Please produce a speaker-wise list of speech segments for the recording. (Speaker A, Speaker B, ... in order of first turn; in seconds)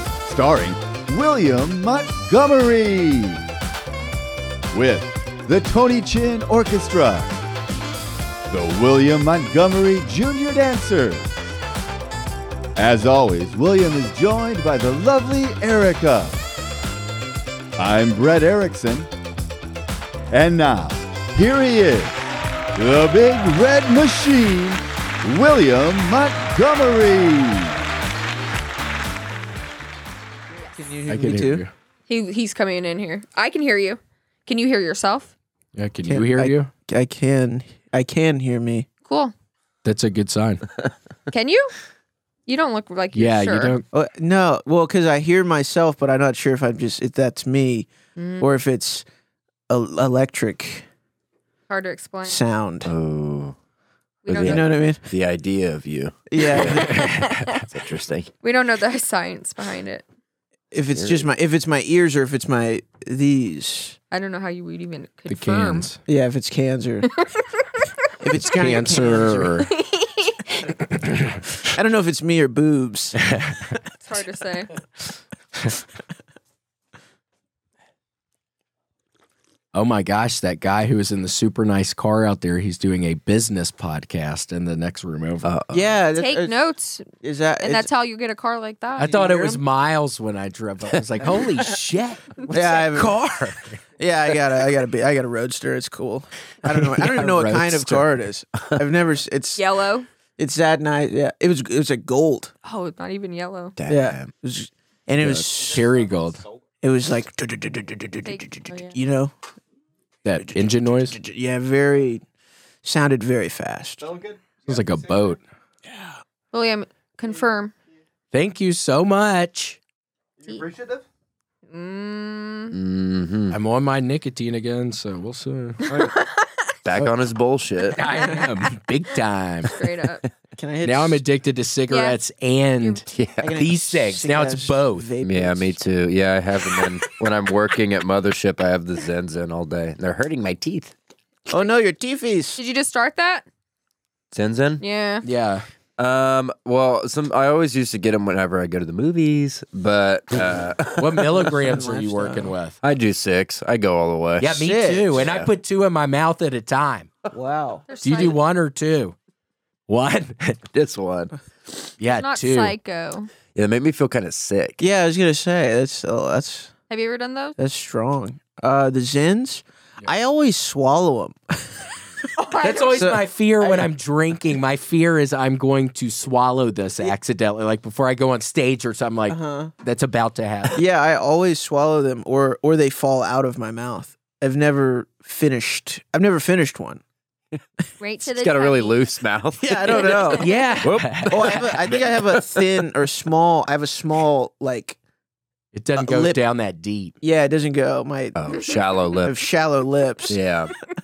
Speaker A: 0.2-3.4, 4.7-7.3, 8.5-11.3, 12.8-16.4, 17.8-19.1, 20.3-22.2, 22.8-27.8
Speaker B: 30.8-31.6, 36.1-38.9, 43.9-47.9, 48.4-49.0, 49.7-50.9, 52.3-52.9, 54.4-55.0, 56.3-57.0, 60.7-64.0, 66.1-67.1, 68.2-69.5, 71.7-73.3, 85.7-86.5, 87.2-87.9, 89.1-89.6, 92.5-93.2, 94.0-99.6, 100.4-102.5, 103.9-105.8, 106.8-109.3, 110.4-112.2, 112.8-114.2, 115.9-116.2, 130.6-131.2, 133.4-135.8, 141.5-142.6, 151.5-152.5, 154.5-155.2, 157.3-157.8, 164.8-166.7, 167.6-171.9, 173.0-173.9, 179.3-179.7, 180.8-187.0, 189.6-190.5, 191.3-195.0, 196.0-196.4, 197.2-198.6, 199.2-200.4
Speaker C: 31.1-31.7, 35.8-36.7, 39.8-40.6, 43.1-43.9, 56.8-57.6, 65.3-66.0, 68.5-69.7, 70.8-71.4, 73.2-73.8, 79.7-85.5, 89.0-93.8, 96.7-98.1, 105.3-106.4, 110.2-111.2, 114.6-115.4, 118.3-119.8, 123.5-126.0, 128.0-129.8, 130.8-133.1, 133.6-135.1, 145.2-145.7, 151.0-152.8, 154.4-157.1, 158.0-159.2, 159.9-160.6, 162.0-162.8, 172.6-180.8, 190.3-191.8, 195.7-197.2
Speaker D: 32.1-35.3, 39.0-39.3, 41.3-41.8, 42.5-43.8, 48.2-48.5, 51.7-52.4, 54.2-54.7, 56.6-57.6, 58.4-60.0, 64.1-65.9, 69.7-70.7, 74.0-74.7, 86.2-89.6, 99.6-100.1, 102.7-103.8, 108.2-109.0, 116.5-117.7, 121.7-122.8, 125.8-126.6, 129.7-130.2, 131.9-132.2, 142.6-143.5, 144.8-145.2, 157.9-158.4, 162.1-163.3, 166.9-167.6, 172.4-173.1, 188.0-189.0, 190.0-190.7
Speaker E: 52.9-53.6, 54.3-58.3, 60.9-61.3, 85.4-86.0, 103.8-104.3, 122.7-123.6, 126.8-128.2, 133.1-133.6, 135.2-140.9, 144.3-144.8, 146.0-151.5, 152.8-155.5, 160.7-161.3, 163.6-164.8, 188.2-191.7, 198.3-199.4, 200.3-200.7